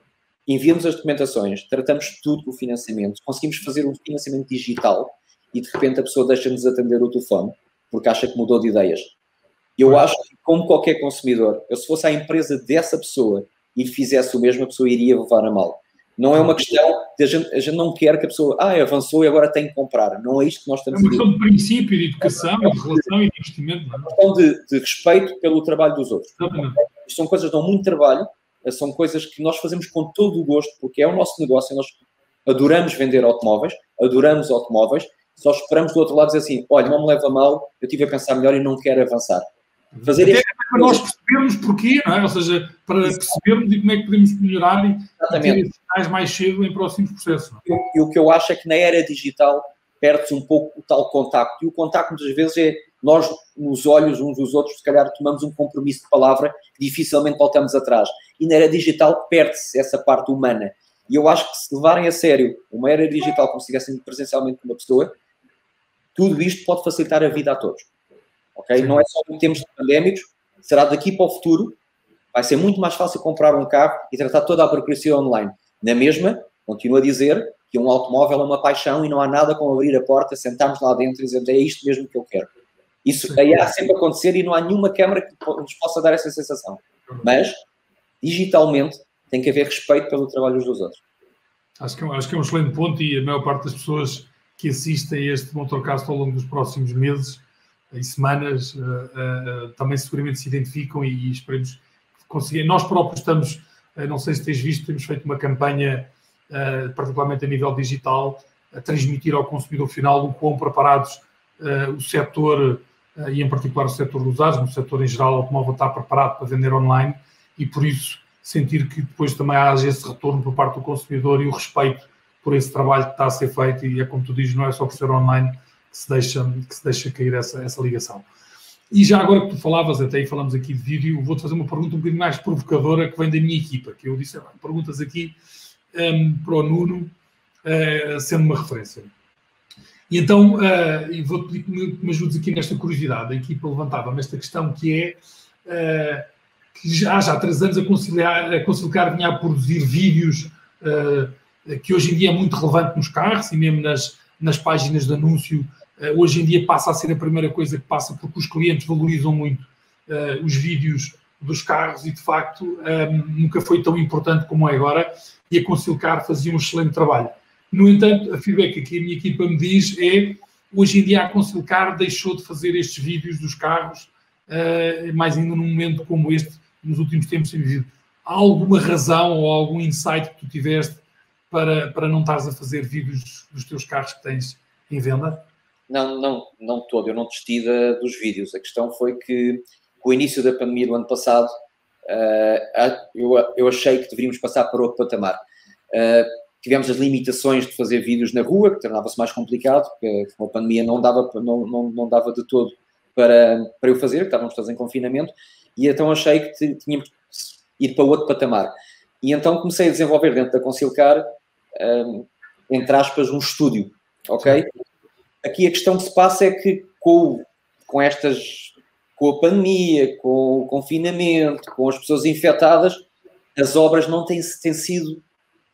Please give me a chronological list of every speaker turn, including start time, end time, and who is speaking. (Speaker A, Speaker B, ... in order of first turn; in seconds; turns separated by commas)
Speaker A: 0.5-9.1, Speaker A: 9.8-21.3, Speaker B: 20.9-24.2, Speaker A: 24.0-39.5, Speaker B: 26.4-26.8, Speaker B: 39.9-47.6, Speaker A: 40.0-41.0, Speaker A: 43.0-43.4, Speaker A: 45.2-45.6, Speaker A: 47.6-65.1, Speaker A: 66.1-67.9, Speaker A: 68.5-71.8, Speaker B: 68.8-69.0, Speaker A: 72.3-82.5, Speaker A: 83.0-87.6, Speaker B: 83.2-83.7, Speaker A: 88.2-91.0, Speaker B: 91.8-128.3, Speaker B: 128.9-135.4, Speaker B: 135.9-137.1, Speaker B: 137.6-139.1, Speaker B: 140.1-185.4, Speaker A: 185.9-191.5, Speaker A: 192.1-195.4, Speaker A: 195.9-214.7, Speaker A: 215.4-225.2